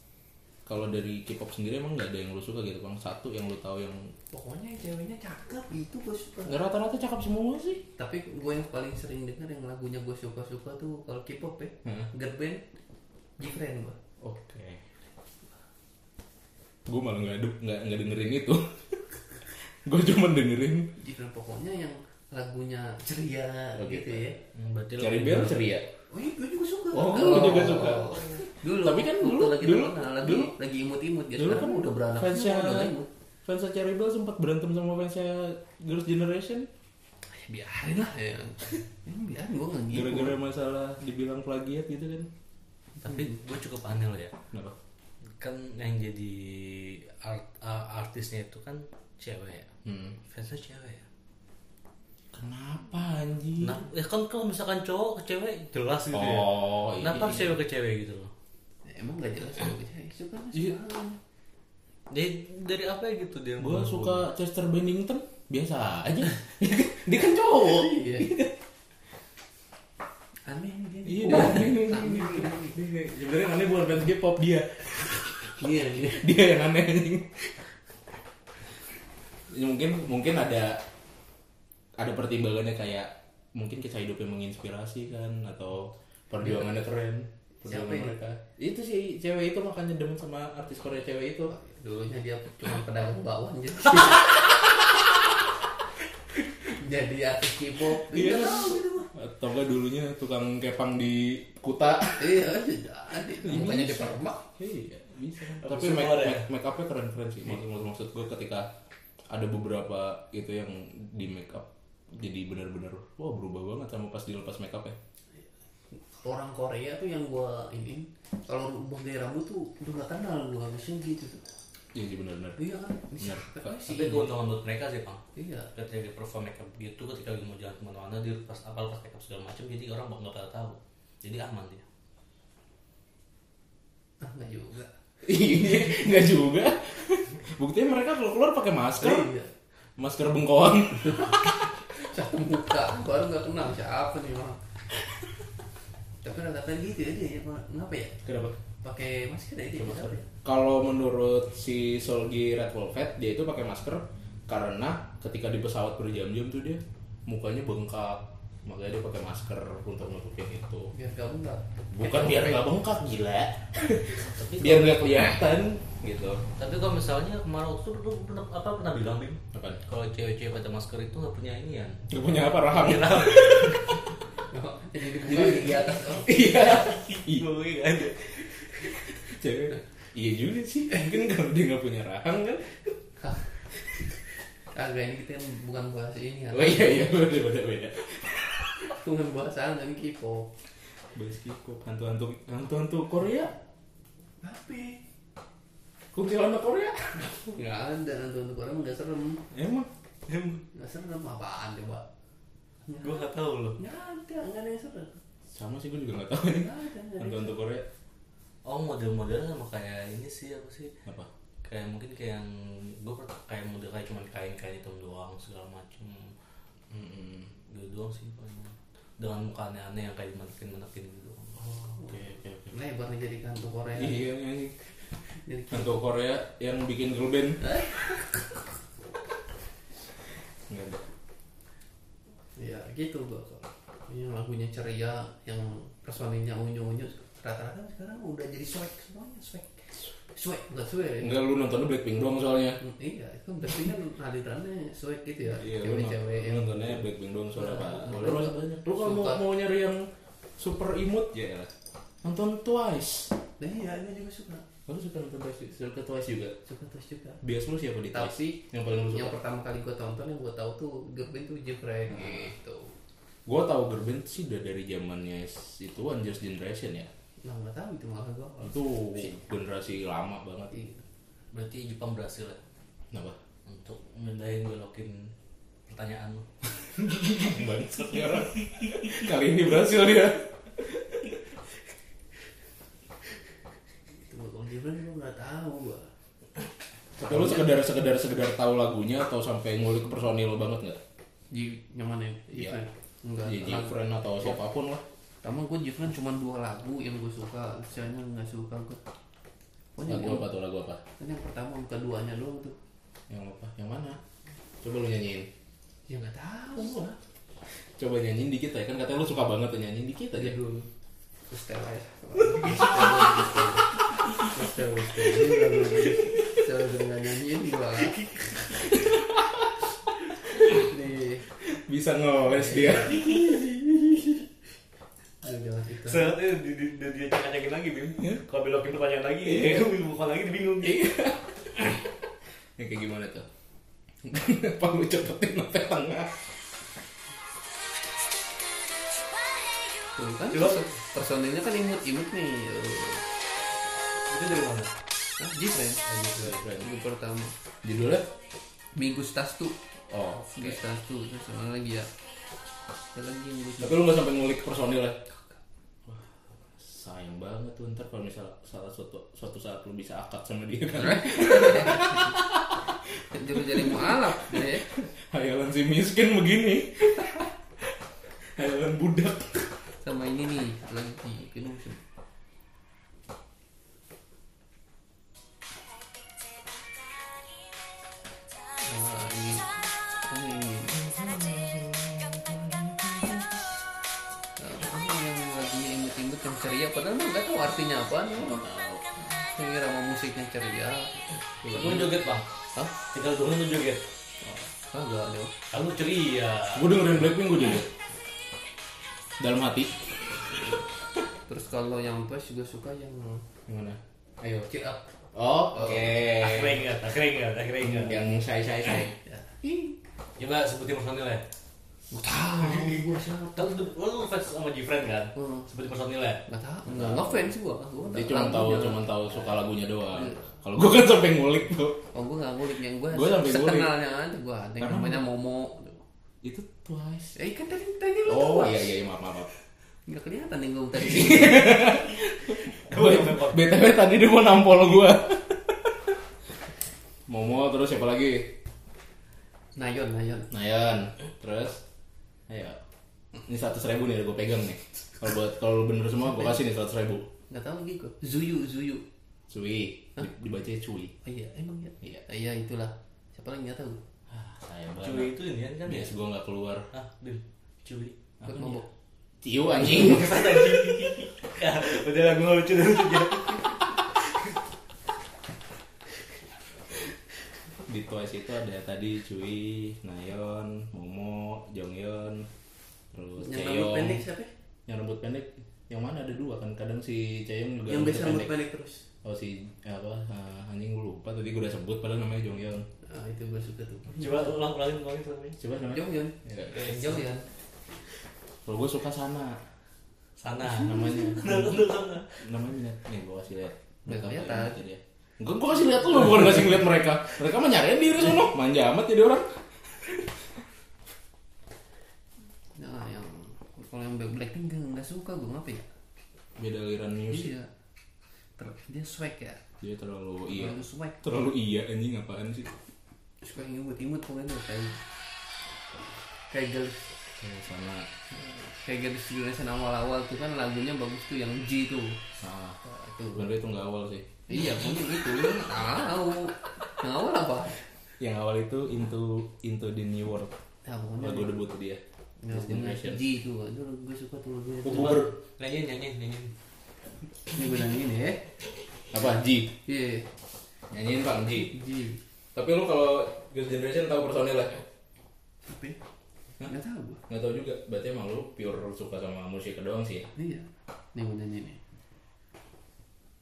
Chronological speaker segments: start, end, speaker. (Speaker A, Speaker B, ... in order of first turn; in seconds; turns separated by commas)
Speaker A: 0.7-4.1, Speaker B: 4.3-6.6, Speaker A: 6.5-7.8, Speaker B: 8.0-12.6, Speaker B: 13.4-14.0, Speaker A: 14.2-14.8, Speaker A: 16.9-19.0, Speaker A: 19.8-20.9, Speaker B: 21.0-24.4, Speaker A: 23.7-24.3, Speaker C: 24.5-25.6, Speaker A: 25.0-25.9, Speaker B: 26.1-33.1, Speaker A: 26.9-30.5, Speaker A: 31.4-32.9, Speaker A: 33.5-36.7, Speaker B: 37.3-40.4, Speaker A: 39.9-42.3, Speaker C: 43.0-44.3, Speaker C: 45.4-49.7, Speaker A: 49.8-50.2, Speaker C: 50.2-51.0, Speaker A: 52.3-53.8, Speaker C: 53.6-58.3, Speaker A: 56.1-57.6, Speaker B: 58.8-61.2, Speaker C: 62.1-64.3, Speaker A: 63.6-68.5, Speaker B: 67.7-68.3, Speaker B: 70.5-72.8, Speaker A: 71.0-77.5, Speaker B: 75.6-76.3, Speaker A: 79.5-80.8, Speaker A: 82.0-91.5, Speaker B: 87.6-88.2, Speaker B: 91.5-95.0, Speaker B: 96.5-99.1, Speaker A: 98.0-102.4, Speaker B: 102.2-104.5, Speaker A: 103.4-108.7, Speaker C: 105.6-106.5, Speaker A: 109.3-115.0, Speaker B: 115.9-121.4, Speaker A: 121.9-122.6, Speaker B: 122.6-124.3, Speaker A: 123.2-123.7, Speaker C: 123.8-131.8, Speaker B: 125.3-125.7, Speaker B: 134.2-134.9, Speaker A: 135.2-139.3, Speaker B: 139.0-139.5, Speaker A: 140.0-141.7, Speaker B: 141.9-144.6, Speaker B: 146.2-148.2, Speaker A: 148.2-148.6, Speaker B: 148.8-150.2, Speaker A: 149.8-160.9, Speaker B: 160.9-162.7, Speaker A: 161.9-166.4, Speaker C: 164.2-165.1, Speaker C: 166.6-172.1, Speaker A: 169.5-169.8, Speaker A: 172.1-173.9, Speaker C: 172.6-174.0, Speaker B: 174.5-176.6, Speaker A: 175.2-177.5, Speaker C: 176.6-178.8, Speaker A: 178.8-182.9, Speaker B: 183.2-183.5, Speaker B: 184.7-187.2, Speaker A: 186.5-188.9, Speaker B: 188.8-190.5, Speaker A: 191.1-193.5, Speaker B: 194.4-195.0, Speaker A: 196.1-197.4, Speaker B: 197.4-199.4, Speaker A: 199.5-199.9, Speaker C: 200.3-200.6, Speaker B: 200.7-202.1, Speaker B: 202.9-205.2, Speaker C: 203.0-203.8, Speaker A: 205.5-207.8, Speaker B: 206.6-207.5, Speaker C: 208.6-210.9, Speaker A: 211.0-211.3, Speaker C: 211.6-216.3, Speaker A: 216.9-217.5, Speaker C: 217.7-221.6, Speaker A: 221.6-222.7, Speaker B: 221.9-224.2, Speaker A: 223.9-224.9, Speaker B: 225.3-226.0, Speaker A: 225.7-227.8, Speaker B: 227.6-228.3, Speaker A: 230.7-231.0, Speaker B: 232.6-241.4, Speaker A: 241.2-242.8, Speaker B: 242.8-247.0, Speaker A: 245.6-251.7, Speaker B: 247.5-249.4, Speaker A: 252.2-253.3, Speaker B: 253.6-254.6, Speaker A: 254.8-256.6, Speaker B: 256.6-257.4, Speaker A: 257.4-259.3, Speaker B: 258.1-263.0, Speaker A: 263.4-267.1, Speaker B: 267.4-269.3, Speaker A: 268.6-270.8, Speaker B: 270.7-271.0, Speaker C: 271.5-272.6, Speaker A: 273.1-273.4, Speaker C: 273.7-275.3, Speaker C: 275.9-277.5, Speaker A: 277.1-281.2, Speaker B: 284.2-286.1, Speaker A: 287.2-291.0, Speaker B: 287.2-287.7, Speaker B: 291.5-294.6, Speaker A: 293.4-295.0, Speaker B: 295.4-299.0, Speaker B: 299.9-300.5, Speaker A: 300.1-301.0, Speaker B: 301.2-302.8, Speaker A: 303.3-304.2, Speaker A: 304.8-305.5, Speaker B: 306.1-307.1, Speaker A: 308.0-310.6, Speaker B: 310.3-310.9, Speaker B: 311.5-318.4, Speaker A: 318.9-319.5, Speaker B: 320.6-321.4, Speaker A: 321.6-323.6, Speaker B: 322.5-323.8, Speaker B: 325.4-326.4, Speaker C: 326.1-331.1, Speaker A: 329.4-329.9, Speaker A: 330.8-332.1, Speaker A: 332.8-333.5, Speaker A: 334.2-336.4, Speaker B: 340.1-343.2, Speaker C: 340.5-340.8, Speaker C: 344.3-344.9, Speaker B: 345.4-347.5, Speaker C: 346.1-346.5, Speaker A: 346.3-346.9, Speaker A: 347.8-348.3, Speaker B: 348.9-349.8, Speaker A: 350.1-350.8, Speaker B: 350.5-352.1, Speaker B: 353.1-354.0, Speaker A: 353.8-355.2, Speaker A: 356.7-362.9, Speaker B: 361.0-362.4, Speaker B: 363.3-364.9, Speaker A: 363.5-367.5, Speaker A: 368.6-369.7, Speaker B: 370.0-372.0, Speaker B: 378.8-381.0, Speaker A: 380.9-383.5, Speaker B: 384.6-388.6, Speaker A: 388.3-389.0, Speaker B: 389.2-392.0, Speaker A: 391.6-392.1, Speaker C: 391.7-392.5, Speaker C: 393.1-394.0, Speaker B: 394.8-395.5, Speaker C: 395.7-396.9, Speaker A: 396.7-397.9, Speaker A: 399.4-400.0, Speaker B: 400.5-400.8, Speaker B: 401.5-403.4, Speaker A: 403.7-404.7, Speaker B: 404.7-405.0, Speaker A: 405.3-406.8, Speaker B: 405.7-406.1, Speaker C: 406.4-408.2, Speaker A: 407.8-409.1, Speaker B: 408.9-410.0, Speaker C: 410.4-411.4, Speaker B: 412.1-413.7, Speaker C: 412.6-413.0, Speaker C: 413.5-416.4, Speaker B: 415.3-415.7, Speaker B: 416.4-419.3, Speaker A: 416.9-417.5, Speaker A: 418.1-422.0, Speaker B: 420.1-420.4, Speaker B: 422.1-426.0, Speaker A: 423.1-423.9, Speaker A: 424.8-425.2, Speaker A: 426.4-427.3, Speaker B: 427.3-429.0, Speaker A: 428.3-429.5, Speaker B: 430.1-432.0, Speaker A: 431.0-436.0, Speaker C: 432.7-433.6, Speaker A: 437.3-438.5, Speaker B: 439.8-440.5, Speaker A: 440.5-441.8, Speaker A: 442.5-442.8, Speaker A: 443.4-447.3, Speaker B: 447.5-449.1, Speaker A: 449.5-451.1, Speaker B: 451.2-454.0, Speaker A: 454.3-455.3, Speaker C: 455.0-456.1, Speaker A: 455.8-456.9, Speaker C: 456.9-458.1, Speaker A: 458.4-458.7, Speaker B: 458.4-458.9, Speaker A: 459.4-461.1, Speaker C: 459.7-464.5, Speaker A: 467.8-472.5, Speaker A: 473.1-474.2, Speaker B: 473.4-474.5, Speaker A: 474.9-478.5, Speaker B: 477.9-479.0, Speaker A: 479.2-482.9, Speaker B: 483.0-484.5, Speaker C: 484.1-485.6, Speaker A: 485.6-486.7, Speaker B: 485.9-487.5, Speaker A: 488.6-489.6, Speaker C: 490.4-492.4, Speaker A: 490.8-500.3, Speaker B: 494.1-494.8, Speaker B: 502.7-505.9, Speaker A: 506.6-507.5, Speaker B: 507.3-507.7, Speaker B: 508.6-509.6, Speaker A: 509.8-512.8, Speaker B: 510.5-511.2, Speaker B: 513.4-515.0, Speaker B: 516.5-517.1, Speaker A: 517.4-518.1, Speaker B: 518.3-522.2, Speaker A: 522.4-522.8, Speaker B: 522.8-523.5, Speaker A: 523.3-524.3, Speaker B: 524.5-527.8, Speaker A: 528.2-530.5, Speaker B: 530.8-531.6, Speaker A: 531.2-533.2, Speaker B: 532.4-535.3, Speaker A: 534.8-535.3, Speaker C: 534.9-536.5, Speaker B: 537.5-538.5, Speaker A: 539.1-539.7, Speaker B: 539.8-540.3, Speaker A: 540.9-541.8, Speaker B: 541.7-542.2, Speaker A: 542.5-544.8, Speaker B: 545.6-546.0, Speaker B: 546.6-547.2, Speaker A: 547.3-550.3, Speaker B: 550.3-551.8